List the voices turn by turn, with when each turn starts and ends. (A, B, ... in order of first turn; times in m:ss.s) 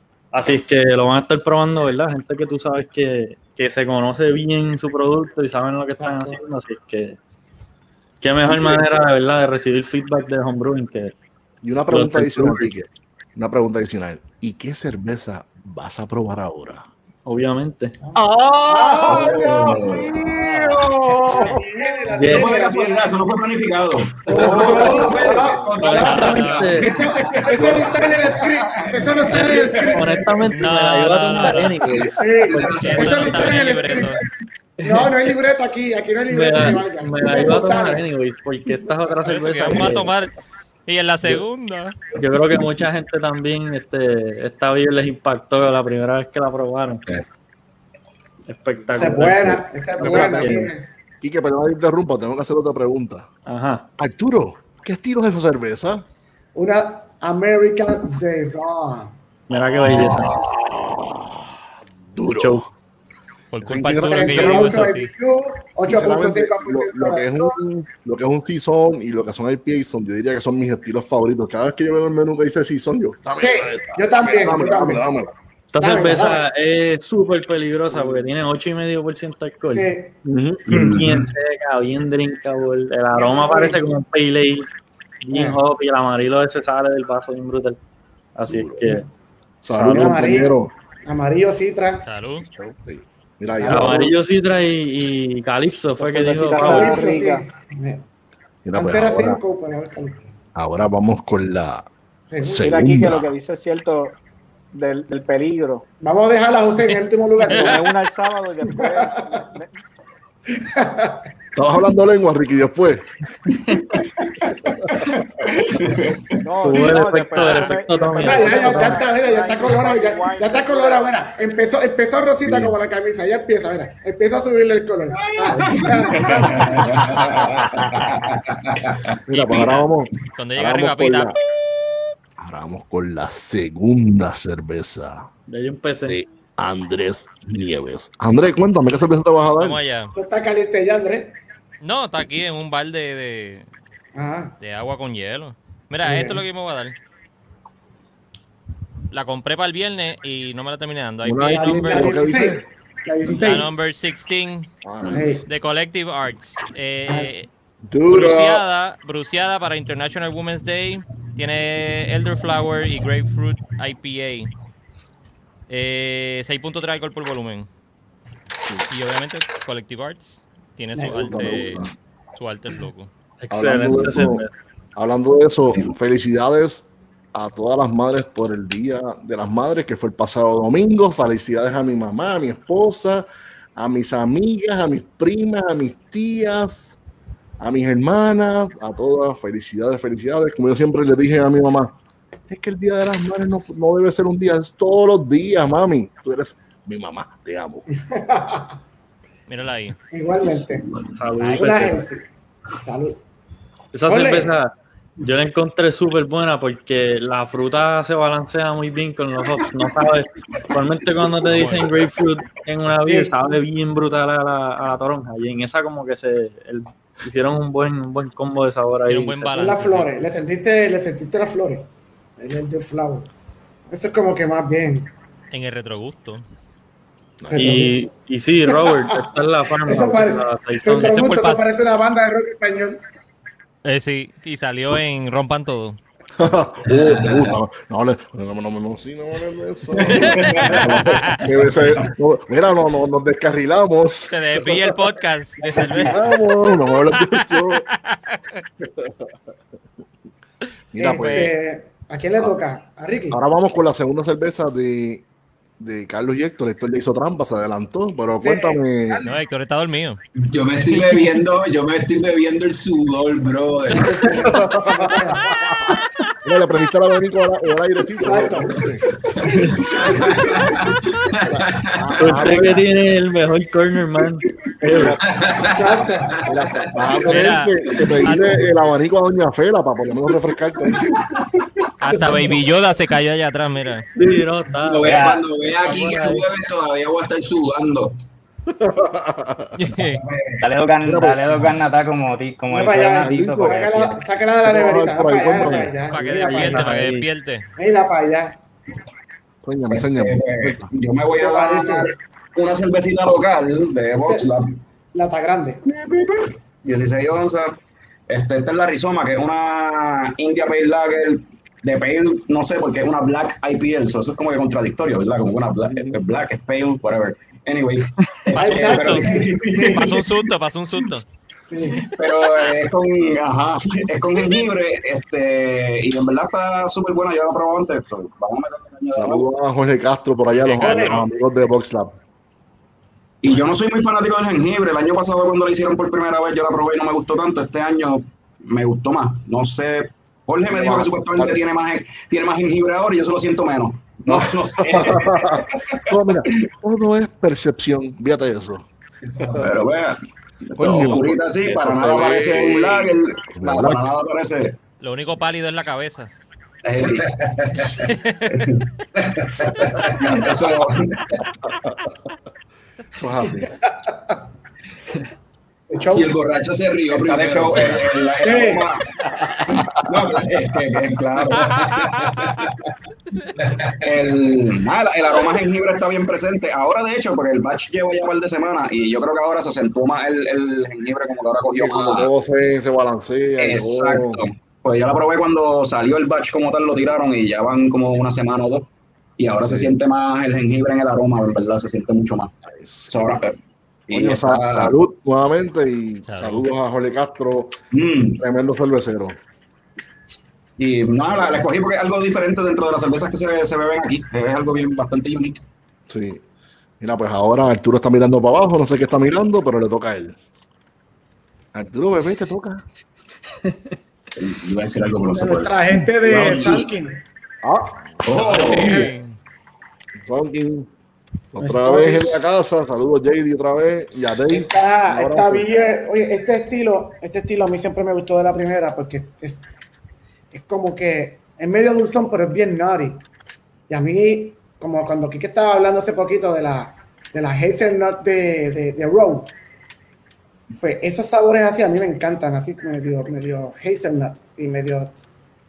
0:00.3-0:07.2 A
0:06.0-0:06.4 B
0:08.2-0:11.1 A
0:08.4-0:08.9 C
0:11.6-0:16.9 C
0:11.9-0:12.7 A
0:17.2-0:17.9 A
0:18.0-0:20.0 B
0:18.1-0:21.6 C
0:19.0-0:20.1 D
0:21.3-0:23.2 B
0:22.1-0:22.7 A
0:22.2-0:30.1 D
0:24.2-0:30.4 B
0:24.3-0:25.6 C
0:25.8-0:26.9 A
0:26.2-0:26.9 E
0:29.9-0:32.7 A
0:30.5-0:31.9 E
0:32.2-0:34.2 B
0:32.4-0:33.6 F
0:32.5-0:34.2 E
0:34.8-0:38.0 B
0:36.3-0:40.1 A
0:39.2-0:40.3 E
0:40.9-0:42.0 E
0:42.1-0:47.0 A
0:48.5-0:50.7 A
0:48.8-0:50.7 C
0:48.9-0:50.8 B
0:51.2-0:53.3 C
0:53.4-0:53.8 A
0:54.0-0:56.0 C
0:56.5-0:59.1 B
0:59.5-1:00.3 A
0:59.5-1:02.7 C
1:02.3-1:02.6 A
1:03.5-1:05.1 E
1:03.6-1:04.8 C
1:04.0-1:07.5 B
1:05.8-1:15.3 C
1:13.4-1:15.1 B
1:15.7-1:19.9 A
1:15.8-1:16.4 B
1:19.6-1:20.1 B
1:20.2-1:20.6 C
1:20.7-1:24.7 A
1:20.7-1:21.0 F
1:23.1-1:23.8 B
1:25.2-1:27.8 A
1:25.3-1:25.6 B
1:28.4-1:29.0 A
1:28.5-1:29.0 C
1:29.6-1:30.7 C
1:29.8-1:32.0 B
1:32.0-1:32.4 E
1:32.5-1:34.1 C
1:33.6-1:34.1 B
1:33.7-1:37.0 A
1:36.0-1:37.4 G
1:36.6-1:38.0 B
1:38.6-1:39.4 C
1:38.7-1:40.3 B
1:40.5-1:41.9 C
1:42.3-1:42.7 B
1:42.4-1:43.3 C
1:42.6-1:44.2 G
1:44.7-1:45.8 G
1:46.0-1:47.8 B
1:47.5-1:49.7 G
1:47.5-1:47.8 E
1:48.6-1:49.6 B
1:50.6-1:51.2 B
1:51.5-1:53.1 C
1:55.0-1:56.4 D
1:56.4-2:01.1 G
1:56.6-1:59.0 A
1:58.2-2:06.9 B
2:02.4-2:02.7 C
2:05.2-2:09.1 D
2:07.6-2:08.3 H
2:09.3-2:11.4 C
2:09.3-2:11.4 E
2:12.4-2:15.3 C
2:15.5-2:16.2 A
2:16.1-2:19.8 C
2:19.6-2:20.1 E
2:20.1-2:21.4 B
2:21.8-2:23.7 E
2:24.2-2:24.6 B
2:24.6-2:27.0 E
2:26.0-2:26.4 B
2:29.1-2:32.2 E
2:31.2-2:32.6 C
2:31.6-2:33.7 B
2:33.4-2:34.7 E
2:34.8-2:35.4 C
2:35.0-2:35.4 B
2:35.4-2:37.5 E
2:37.1-2:37.3 B
2:37.9-2:38.6 C
2:38.1-2:44.5 E
2:45.7-2:47.7 E
2:48.9-2:53.1 E
2:50.9-2:51.3 B
2:51.1-2:51.9 C
2:53.4-2:54.5 A
2:53.5-2:54.4 C
2:55.0-3:07.0 C
3:07.6-3:11.9 C
3:12.5-3:17.8 C
3:18.0-3:18.8 B
3:19.5-3:20.0 E
3:20.1-3:20.8 B
3:20.4-3:21.1 F
3:21.1-3:22.0 A
3:21.4-3:21.8 H
3:21.5-3:22.2 B
3:22.8-3:23.2 B
3:23.9-3:39.6 A
3:24.1-3:24.5 B
3:31.5-3:31.9 E
3:33.0-3:33.3 B
3:39.1-3:40.1 E
3:39.5-3:41.9 B
3:42.4-3:43.3 B
3:43.9-3:45.1 B
3:45.5-3:46.4 E
3:47.4-3:47.9 C
3:47.5-3:48.1 B
3:47.6-3:51.6 A
3:48.6-3:53.0 B
3:51.0-3:51.6 E
3:53.8-3:56.0 E
3:56.4-4:05.0 C
4:00.0-4:00.8 D
4:00.0-4:01.4 E
4:04.3-4:08.4 E
4:06.0-4:07.9 C
4:08.8-4:09.2 C
4:10.9-4:11.5 C
4:11.0-4:13.4 B
4:11.1-4:11.5 E
4:13.3-4:15.2 C
4:15.8-4:19.3 C
4:18.4-4:19.4 B
4:19.2-4:20.2 E
4:20.5-4:24.4 F
4:20.9-4:21.4 E
4:23.9-4:26.0 B
4:24.4-4:25.5 C
4:26.4-4:29.1 C
4:28.2-4:28.8 B
4:29.4-4:32.5 F
4:30.2-4:30.5 C
4:31.9-4:32.8 C
4:32.2-4:35.2 A
4:34.8-4:35.4 C
4:35.0-4:37.3 F
4:35.7-4:36.3 B
4:36.4-4:41.0 C
4:37.3-4:38.6 E
4:42.0-4:44.1 E
4:42.1-4:42.6 C
4:44.2-4:46.5 A
4:44.8-4:48.1 F
4:45.0-4:45.4 H
4:48.7-4:49.8 C
4:49.8-4:50.2 E
4:50.2-4:50.6 D
4:50.6-4:54.2 H
4:51.0-4:51.4 C
4:52.7-4:57.0 B
4:53.2-4:53.8 C
4:54.6-4:56.4 C
4:56.1-4:57.7 E
4:56.3-4:57.3 A
4:57.8-4:58.6 B
4:59.6-5:00.9 C
4:59.9-5:04.7 D
5:01.3-5:02.1 B
5:04.2-5:04.5 B
5:05.1-5:05.8 B
5:05.8-5:07.8 D
5:08.3-5:20.5 D
5:15.8-5:16.2 C
5:18.2-5:18.5 A
5:18.5-5:19.3 E
5:18.5-5:20.2 B
5:19.8-5:21.2 E
5:21.7-5:22.1 B
5:22.0-5:29.5 D
5:29.1-5:32.1 C
5:30.5-5:31.2 E
5:30.8-5:31.2 B
5:33.4-5:46.0 D
5:40.7-5:41.6 C
5:44.3-5:48.9 C
5:49.3-5:50.2 D
5:50.7-5:54.8 D
5:50.8-5:54.1 C
5:55.0-5:56.3 E
5:56.8-5:58.0 D
5:57.0-5:57.9 F
5:58.0-5:58.7 E
5:58.5-5:58.8 D
5:59.4-6:01.2 D
5:59.9-6:00.5 F
6:03.1-6:03.7 C
6:04.0-6:04.4 B
6:05.9-6:06.3 B
6:06.0-6:08.1 F
6:07.1-6:09.0 D
6:08.4-6:08.9 B
6:09.7-6:12.0 D
6:11.6-6:12.3 E
6:12.2-6:12.7 F
6:13.6-6:14.2 F
6:14.0-6:22.3 D
6:21.7-6:24.4 C
6:23.6-6:32.5 D
6:29.6-6:30.0 C
6:32.7-6:33.4 C
6:33.1-6:33.6 D
6:34.1-6:34.9 D
6:34.1-6:37.8 C
6:36.3-6:36.6 E
6:37.9-6:38.4 D
6:38.4-6:39.4 C
6:40.8-6:45.6 D
6:46.1-6:46.4 C
6:47.0-6:50.4 C
6:51.7-6:52.8 C
6:53.6-6:53.9 A
6:54.4-6:56.9 D
6:55.3-6:57.2 B
6:57.6-6:58.8 C
6:58.2-6:59.1 D
6:58.3-6:59.4 E
6:58.7-6:59.1 B
7:00.2-7:00.9 C
7:01.5-7:05.7 C
7:01.6-7:02.4 B
7:04.5-7:09.6 B
7:10.5-7:13.2 B
7:13.9-7:19.5 B
7:20.8-7:25.1 B